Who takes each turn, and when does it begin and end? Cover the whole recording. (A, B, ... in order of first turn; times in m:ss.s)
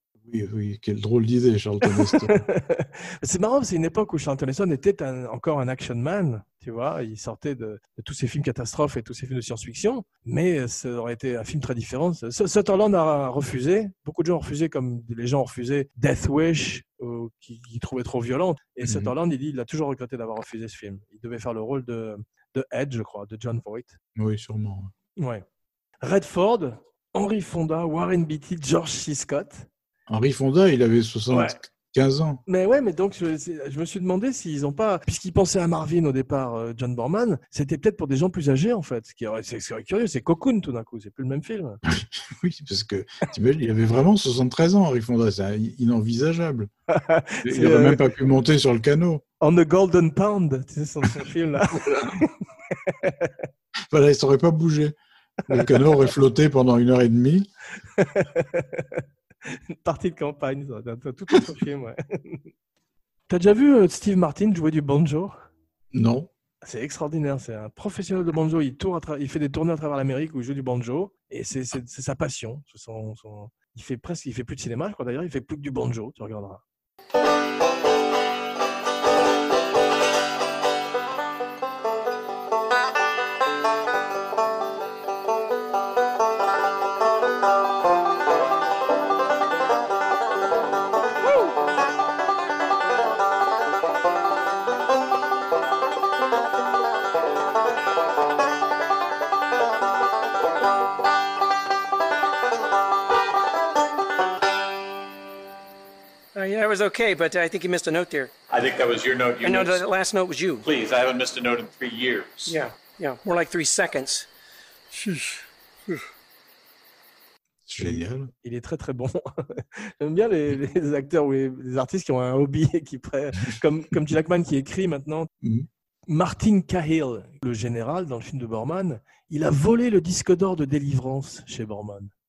0:00.2-0:02.4 A
0:01.8-0:24.0 B
0:18.8-0:19.1 A
0:24.2-0:24.9 A
0:25.2-0:25.4 B
0:26.0-0:29.7 B
0:30.1-0:32.4 A
0:31.3-0:31.6 B
0:32.5-0:41.8 B
0:41.9-0:46.7 A
0:46.9-0:48.0 B
0:47.4-0:49.2 A
0:49.4-0:53.3 B
0:51.7-0:52.2 A
0:53.9-0:54.9 A
0:55.5-0:57.5 A
0:55.5-0:56.0 B
0:58.0-1:02.4 B
1:03.3-1:05.3 B
1:05.9-1:06.3 A
1:06.6-1:16.6 B
1:46.3-1:48.3 C
1:48.5-1:49.8 D
1:49.4-1:50.6 C
1:50.6-1:52.6 D
1:52.4-1:54.3 C
1:57.7-1:58.3 A
1:57.8-2:05.3 B
2:05.4-2:05.7 A
2:06.1-2:12.1 B